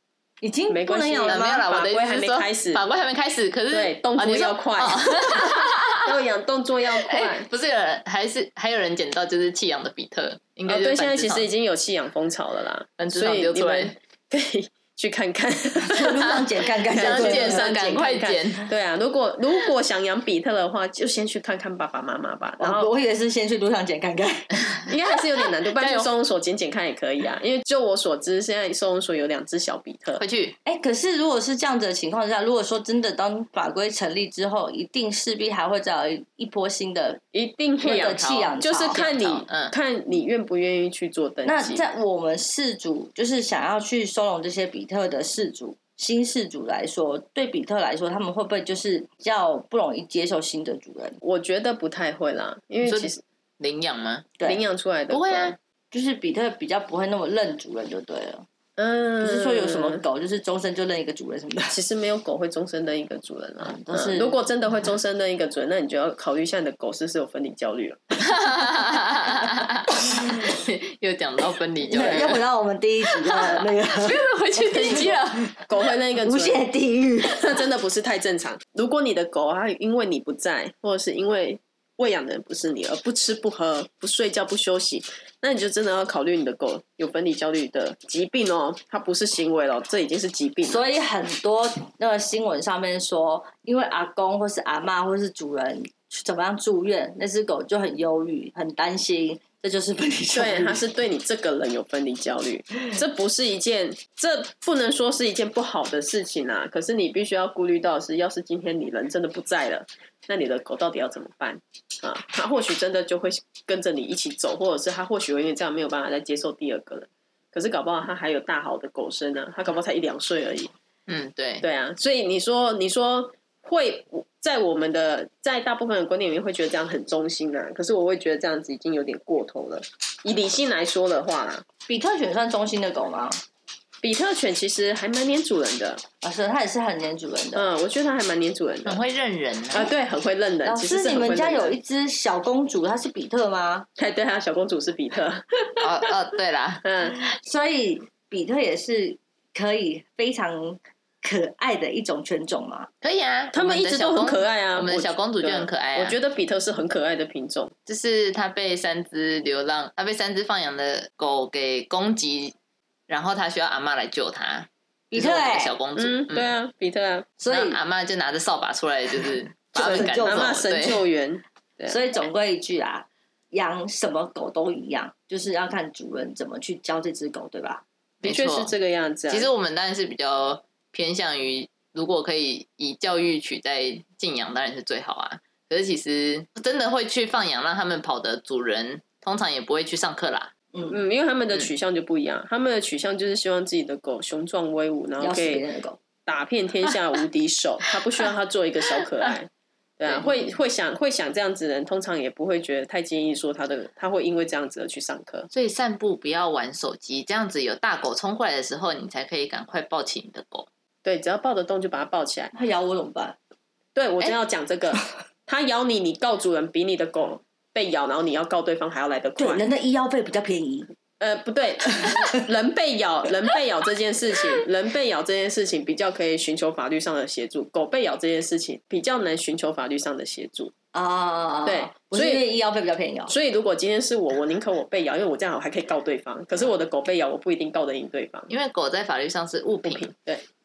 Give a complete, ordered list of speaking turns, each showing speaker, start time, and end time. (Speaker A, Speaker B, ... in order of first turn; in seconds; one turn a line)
Speaker A: 0.4-1.6
Speaker B: 0.7-2.8
Speaker C: 1.3-6.1
Speaker B: 3.7-7.5
Speaker C: 7.0-11.5
Speaker B: 10.7-22.9
Speaker C: 13.0-13.9
Speaker A: 15.8-17.7
Speaker C: 16.9-18.7
Speaker A: 22.6-24.5
Speaker B: 24.9-30.2
Speaker C: 25.8-26.1
Speaker C: 30.2-30.6
Speaker A: 30.6-37.2
Speaker B: 37.3-41.8
Speaker A: 37.8-39.0
Speaker C: 37.8-39.7
Speaker A: 41.4-51.2
Speaker B: 51.2-53.2
Speaker C: 52.8-54.3
Speaker A: 54.4-54.6
Speaker B: 54.4-55.5
Speaker C: 55.1-55.5
Speaker A: 55.9-58.5
Speaker B: 58.8-60.0
Speaker A: 59.2-61.8
Speaker B: 61.7-68.2
Speaker A: 63.6-64.4
Speaker C: 68.2-72.4
Speaker A: 71.9-74.2
Speaker C: 73.0-75.4
Speaker B: 74.6-76.6
Speaker A: 74.9-75.5
Speaker A: 76.2-77.6
Speaker B: 77.2-90.8
Speaker A: 90.7-100.8
Speaker B: 100.3-120.7
Speaker C: 121.1-121.6
Speaker B: 121.6-131.6
Speaker A: 131.9-133.4
Speaker B: 134.0-136.0
Speaker A: 136.2-137.7
Speaker B: 137.5-139.0
Speaker C: 138.8-139.9
Speaker B: 139.7-141.8
Speaker A: 140.6-143.9
Speaker B: 144.0-145.9
Speaker C: 145.8-146.8
Speaker B: 146.8-147.2
Speaker A: 147.4-152.9
Speaker C: 153.0-156.2
Speaker B: 153.5-157.7
Speaker C: 157.8-162.5
Speaker C: 163.1-166.5
Speaker A: 165.1-165.8
Speaker B: 166.0-167.3
Speaker A: 167.4-167.8
Speaker C: 167.5-171.0
Speaker B: 169.7-172.0
Speaker A: 169.8-170.6
Speaker A: 171.9-177.8
Speaker B: 178.2-179.5
Speaker C: 178.2-178.7
Speaker C: 179.3-190.5
Speaker A: 190.7-191.0
Speaker B: 190.8-195.7
Speaker A: 195.2-196.0
Speaker B: 196.2-205.5
Speaker C: 205.5-210.7
Speaker B: 211.0-212.5
Speaker A: 212.5-213.3
Speaker B: 213.9-219.6
Speaker A: 219.4-220.9
Speaker B: 221.2-230.7
Speaker A: 230.9-233.3
Speaker B: 231.7-232.4
Speaker B: 233.3-238.5
Speaker C: 238.5-240.1
Speaker B: 239.8-240.4